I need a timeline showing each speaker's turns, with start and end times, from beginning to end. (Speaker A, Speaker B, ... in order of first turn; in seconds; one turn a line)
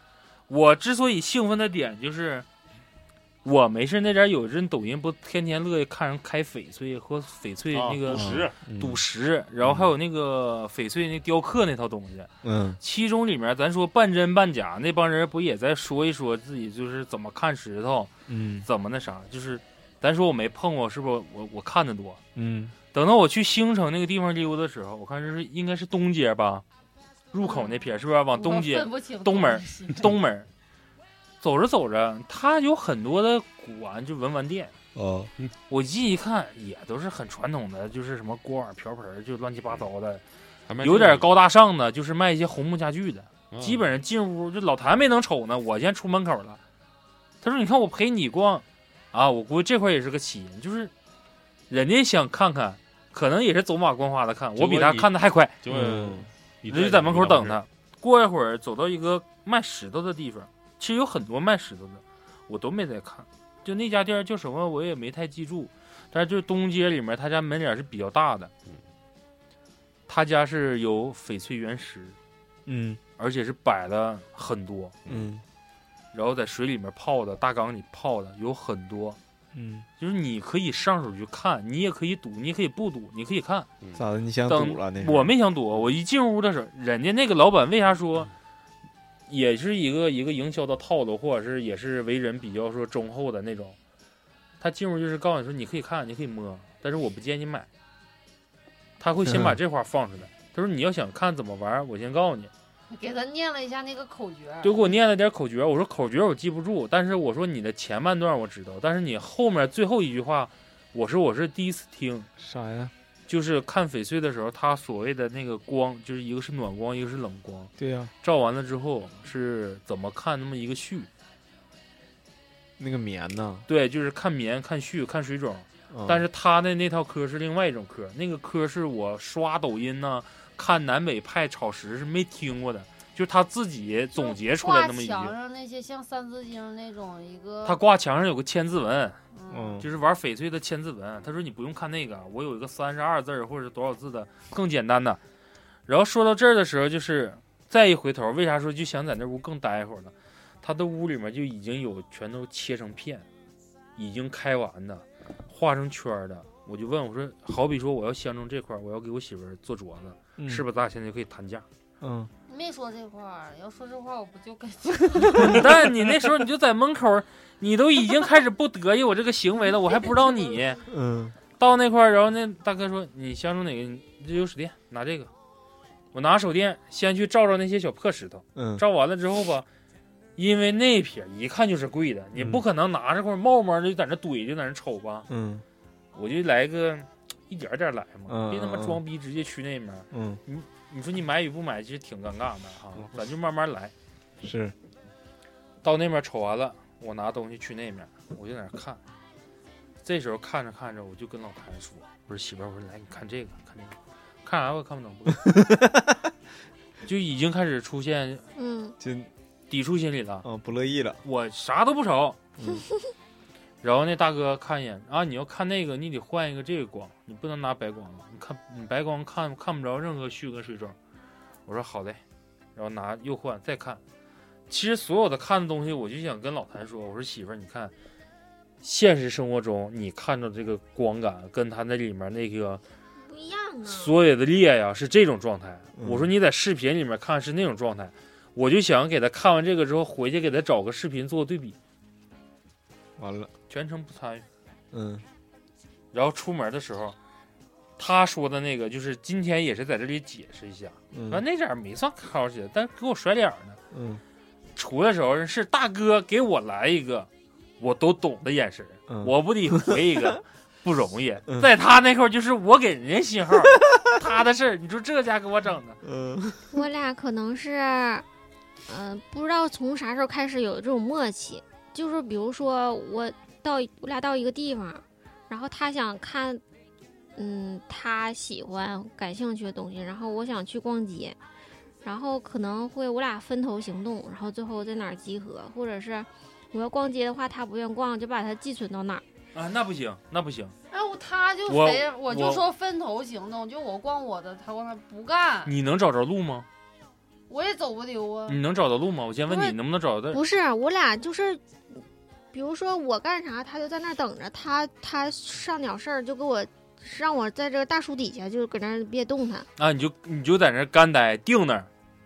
Speaker A: 0.5-2.5
Speaker A: 3.4-18.1
Speaker B: 7.7-8.6
Speaker C: 8.1-9.0
Speaker C: 12.4-12.8
Speaker C: 18.3-18.7
Speaker A: 18.6-22.2
Speaker C: 22.4-22.7
Speaker A: 22.9-26.6
Speaker A: 27.3-30.5
Speaker D: 27.4-30.1
Speaker A: 31.4-34.7
Speaker C: 34.9-35.3
Speaker A: 35.7-40.2
Speaker B: 40.7-41.3
Speaker A: 40.8-46.6
Speaker B: 43.5-43.9
Speaker A: 47.4-50.9
Speaker A: 51.7-55.5
Speaker B: 54.5-55.1
Speaker B: 55.6-57.6
Speaker C: 55.7-56.3
Speaker A: 56.7-68.5
Speaker A: 70.1-72.2
Speaker C: 72.7-73.0
Speaker A: 73.2-75.0
Speaker C: 75.1-75.4
Speaker A: 76.1-79.2
Speaker C: 79.5-79.8
Speaker A: 80.0-83.7
Speaker C: 84.0-85.3
Speaker A: 84.5-88.3
Speaker A: 89.3-93.8
Speaker A: 94.6-97.7
Speaker A: 99.0-102.5
Speaker C: 99.2-99.6
Speaker D: 102.9-104.8
Speaker A: 104.6-112.3
Speaker C: 112.4-112.9
Speaker A: 113.3-121.1
Speaker C: 117.8-118.1
Speaker C: 122.8-123.7
Speaker A: 123.7-135.3
Speaker C: 125.9-126.2
Speaker D: 134.1-137.8
Speaker A: 137.6-139.2
Speaker D: 139.3-139.8
Speaker C: 139.5-139.9
Speaker A: 139.8-145.2
Speaker A: 145.9-153.2
Speaker A: 154.0-161.7
Speaker C: 160.4-160.6
Speaker C: 162.0-162.3
Speaker D: 162.5-165.6
Speaker A: 165.3-170.8
Speaker C: 170.9-171.3
Speaker A: 171.6-175.3
Speaker A: 176.1-179.7
Speaker C: 178.6-178.8
Speaker A: 180.4-185.3
Speaker C: 182.3-182.6
Speaker C: 185.3-185.6
Speaker A: 186.1-193.9
Speaker C: 188.3-189.0
Speaker C: 190.1-190.4
Speaker B: 193.0-193.2
Speaker C: 194.4-194.7
Speaker A: 195.8-199.0
Speaker A: 200.0-205.6
Speaker C: 205.5-206.1
Speaker A: 207.0-208.4
Speaker E: 208.6-208.9
Speaker C: 209.0-209.3
Speaker A: 209.7-210.4
Speaker C: 210.4-211.2
Speaker A: 211.2-212.4
Speaker C: 212.6-212.8
Speaker A: 213.8-220.9
Speaker A: 221.7-222.2
Speaker A: 222.8-224.0
Speaker A: 224.7-227.9
Speaker A: 228.8-232.8
Speaker E: 233.2-234.1
Speaker A: 233.8-241.8
Speaker C: 236.0-236.3
Speaker C: 243.2-243.5
Speaker A: 243.7-244.4
Speaker C: 244.9-245.2
Speaker A: 246.1-247.2
Speaker A: 248.0-253.8
Speaker C: 251.1-251.4
Speaker C: 253.9-254.2
Speaker A: 254.8-266.0
Speaker C: 259.1-260.0
Speaker C: 266.0-266.8
Speaker E: 266.7-268.2
Speaker E: 268.9-276.6
Speaker E: 277.3-281.4
Speaker E: 282.0-289.2
Speaker A: 289.5-290.7
Speaker D: 290.9-295.7
Speaker A: 291.7-292.6
Speaker A: 295.6-296.7
Speaker D: 297.5-298.6
Speaker A: 298.5-300.4
Speaker E: 299.5-299.8
Speaker E: 300.3-309.7
Speaker A: 309.8-311.9